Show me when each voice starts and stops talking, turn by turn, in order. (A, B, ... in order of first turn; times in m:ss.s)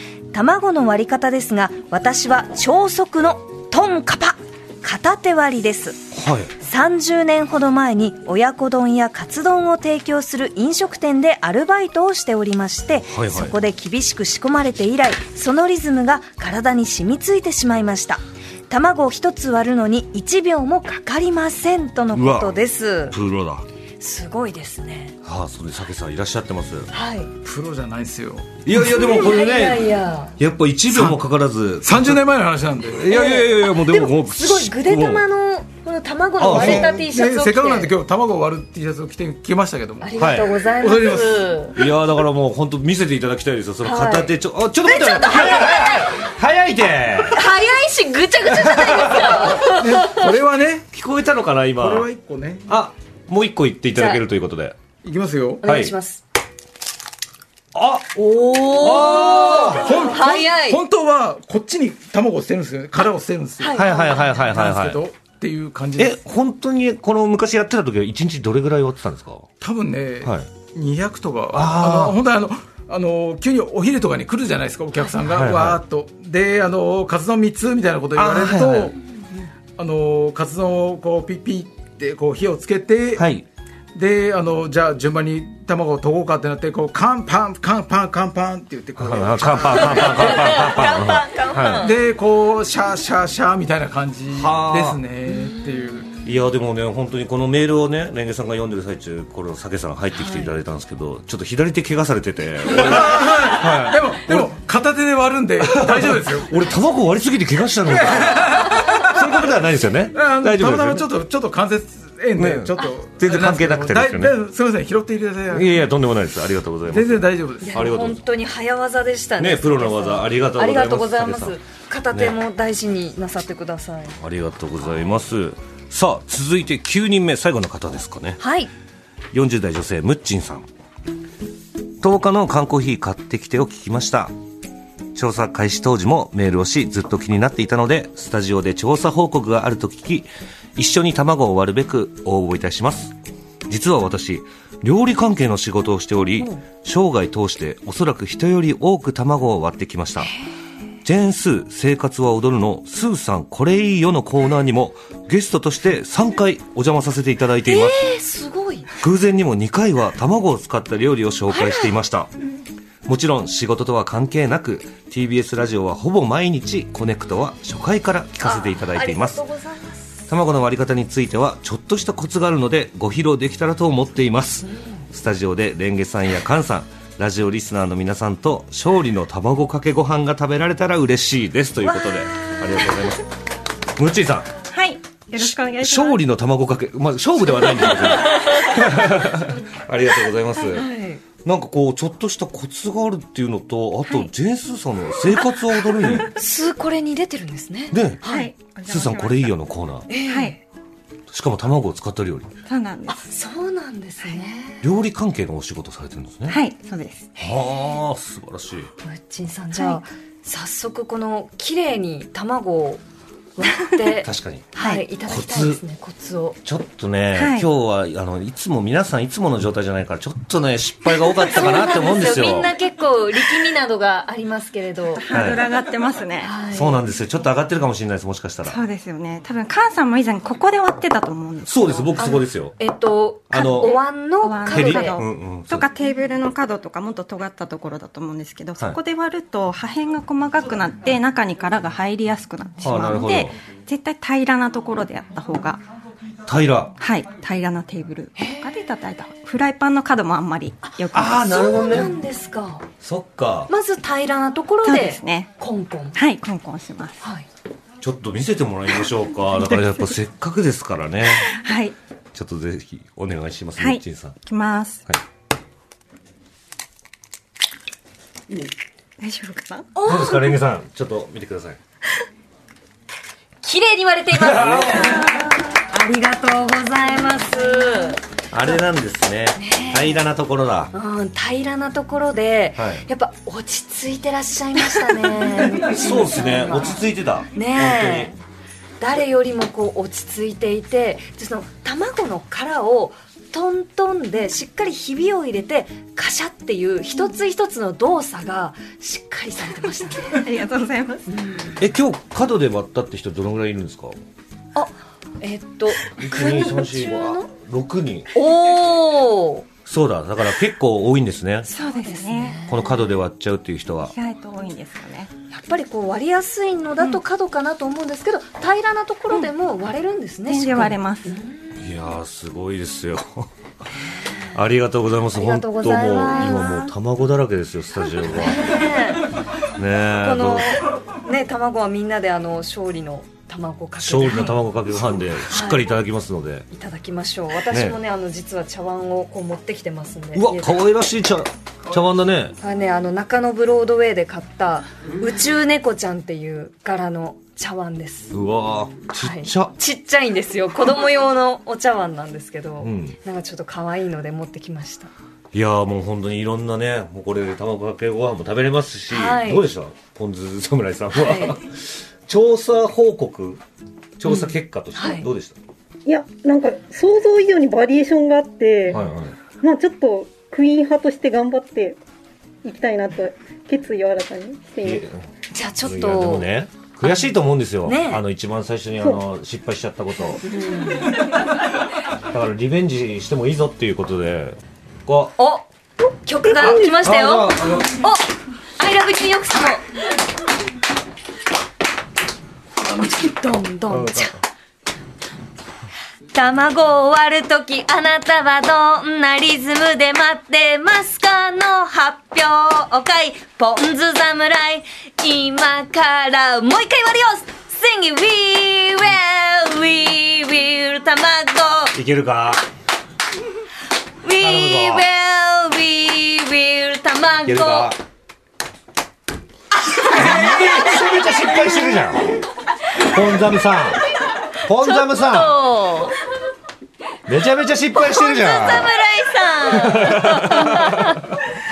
0:00.3-0:06.1 A
0:06.1-0:06.5 B
0:06.6-0:23.2 A
0:13.1-0:13.6 B
0:22.1-0:22.6 B
0:23.1-0:23.6 B
0:24.0-0:25.2 A
0:25.2-0:26.9 B
0:26.9-0:27.3 A
0:27.4-0:28.9 C
0:28.6-0:32.2 B
0:28.9-0:30.4 A
0:30.9-0:31.2 C
0:31.8-0:33.2 C
0:32.9-0:35.2 B
0:33.1-0:37.9 A
0:36.4-0:37.0 B
0:36.4-0:40.2 C
0:40.0-0:41.8 A
0:40.2-0:40.5 B
0:40.7-0:41.6 C
0:41.8-0:47.4 B
0:43.8-0:46.2 A
0:47.3-0:50.2 A
0:48.5-0:49.6 B
0:49.6-0:50.9 C
0:50.9-0:52.1 B
0:51.8-0:52.7 C
0:52.7-0:54.8 B
0:54.0-0:54.2 A
0:55.0-0:55.6 C
0:55.6-0:56.2 A
0:55.6-0:55.9 B
0:57.7-1:00.0 B
0:58.2-1:00.8 A
0:59.7-1:06.2 C
1:03.6-1:04.5 A
1:03.7-1:05.0 B
1:06.0-1:09.5 B
1:09.6-1:19.0 C
1:11.5-1:12.2 B
1:15.3-1:15.8 B
1:18.2-1:19.0 B
1:19.8-1:23.3 C
1:23.2-1:23.5 B
1:23.9-1:30.6 C
1:29.0-1:31.9 B
1:29.7-1:31.9 A
1:31.8-1:36.2 C
1:34.3-1:35.0 B
1:35.3-1:35.7 A
1:36.2-1:44.5 B
1:40.2-1:40.5 A
1:42.8-1:46.6 C
1:45.6-1:51.1 B
1:47.9-1:49.4 C
1:50.1-1:55.8 C
1:52.4-1:54.4 B
1:55.5-1:58.2 B
1:56.9-1:57.8 C
1:57.6-2:04.2 A
1:59.4-2:01.6 B
2:02.1-2:02.4 B
2:04.2-2:08.4 B
2:08.4-2:08.7 A
2:09.3-2:10.7 B
2:12.0-2:14.3 B
2:15.2-2:23.2 B
2:23.7-2:30.3 B
2:31.0-2:38.1 B
2:37.6-2:38.9 A
2:39.0-2:42.3 B
2:41.5-2:41.9 A
2:43.0-2:49.4 B
2:48.4-2:50.0 A
2:50.3-3:03.2 B
3:01.8-3:02.8 A
3:04.0-3:04.5 B
3:04.7-3:06.2 D
3:05.4-3:10.9 B
3:10.6-3:11.2 A
3:11.4-3:16.3 B
3:14.0-3:14.3 D
3:16.2-3:18.5 A
3:17.9-3:18.3 B
3:18.3-3:19.6 D
3:18.9-3:20.1 B
3:20.1-3:20.6 A
3:20.2-3:20.6 D
3:21.3-3:22.5 B
3:22.7-3:23.3 D
3:23.2-3:24.8 A
3:24.8-3:26.6 B
3:26.5-3:27.3 D
3:27.4-3:28.9 B
3:29.0-3:33.0 A
3:33.6-3:36.6 A
3:34.2-3:34.8 B
3:34.8-3:35.0 D
3:35.3-3:35.8 B
3:36.6-3:42.7 B
3:37.3-3:37.7 D
3:41.4-3:45.2 A
3:45.1-3:46.6 D
3:45.3-3:45.6 B
3:46.4-3:47.0 A
3:46.7-3:48.8 B
3:48.6-3:52.2 D
3:51.7-3:52.8 B
3:52.2-3:55.2 A
3:53.5-3:54.0 B
3:54.4-4:05.8 D
3:54.7-3:55.9 B
4:02.8-4:03.6 B
4:06.5-4:07.0 B
4:07.0-4:12.1 D
4:08.4-4:08.7 A
4:10.8-4:12.9 A
4:11.1-4:12.2 B
4:13.0-4:13.7 B
4:13.7-4:16.2 A
4:14.8-4:15.5 D
4:16.1-4:17.2 D
4:17.2-4:17.5 A
4:18.0-4:21.5 B
4:19.8-4:20.0 D
4:21.4-4:22.0 D
4:22.3-4:24.4 B
4:23.8-4:25.0 D
4:29.2-4:29.9 D
4:30.0-4:30.6 A
4:30.0-4:31.8 B
4:33.6-4:38.2 A
4:34.3-4:35.4 B
4:38.5-4:40.9 B
4:39.6-4:40.2 A
4:40.9-4:48.4 A
4:42.8-4:43.0 B
4:45.5-4:48.3 B
4:49.0-5:00.5 A
5:00.3-5:01.3 D
5:01.3-5:01.8 A
5:01.8-5:04.2 B
5:04.8-5:07.5 A
5:06.1-5:08.3 B
5:08.3-5:09.7 A
5:09.9-5:11.7 B
5:11.7-5:13.0 A
5:11.7-5:12.8 D
5:12.7-5:14.2 B
5:14.1-5:15.3 D
5:15.5-5:21.8 A
5:20.5-5:21.4 D
5:21.8-5:23.5 B
5:24.5-5:28.8 B
5:25.4-5:26.9 A
5:28.2-5:29.3 A
5:29.7-5:30.8 B
5:30.2-5:34.6 A
5:34.0-5:36.7 B
5:35.5-5:35.9 A
5:36.7-5:40.8 A
5:37.7-5:38.0 B
5:40.4-5:42.6 B
5:42.6-5:48.4 A
5:48.3-5:49.7 B
5:49.2-5:55.1 A
5:52.8-5:53.2 B
5:55.5-6:03.6 B
5:59.1-5:59.7 A
6:01.2-6:01.6 A
6:04.2-6:05.6 B
6:04.2-6:05.3 A
6:06.1-6:09.0 E
6:08.9-6:09.4 B
6:09.6-6:12.0 E
6:12.6-6:15.0 E
6:14.8-6:15.2 B
6:15.5-6:16.5 A
6:15.8-6:20.4 B
6:17.0-6:18.2 A
6:20.4-6:21.1 A
6:22.3-6:25.4 B
6:25.4-6:29.8 A
6:26.6-6:27.0 E
6:26.6-6:28.0 B
6:32.9-6:34.4 A
6:33.9-6:34.4 B
6:36.3-6:52.0 A
6:52.0-6:52.6 B
6:54.2-6:57.9 A
6:54.4-6:55.1 B
6:57.4-6:58.0 B
7:00.0-7:02.4 B
7:00.2-7:00.9 A
7:01.4-7:02.0 A
7:03.0-7:04.0 B
7:04.6-7:05.6 B
7:04.8-7:06.2 A
7:07.3-7:08.9 B
7:07.9-7:11.2 A
7:09.7-7:11.2 B